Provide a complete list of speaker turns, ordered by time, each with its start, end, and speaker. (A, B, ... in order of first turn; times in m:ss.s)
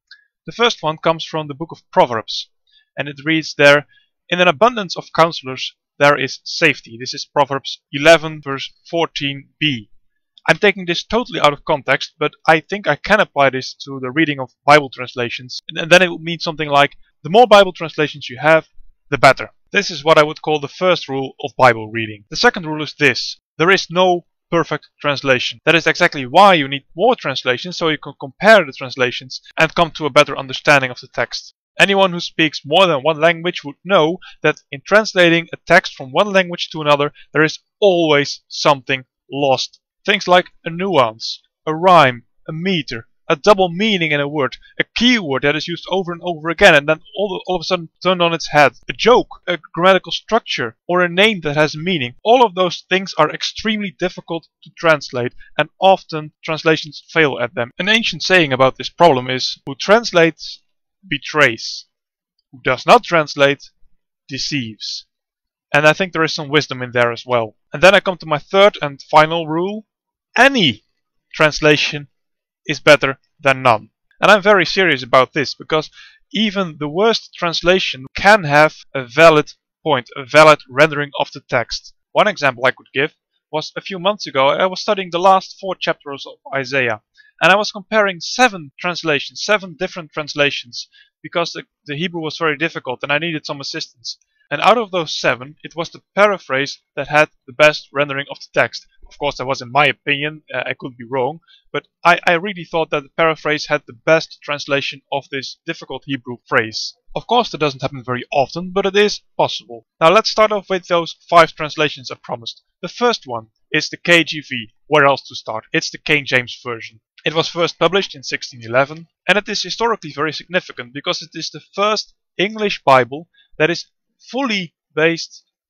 0:00.5-0:09.9 A
0:10.5-1:01.9 A
1:02.5-1:03.7 A
1:04.3-1:05.1 A
1:05.7-1:12.1 A
1:12.7-2:05.4 A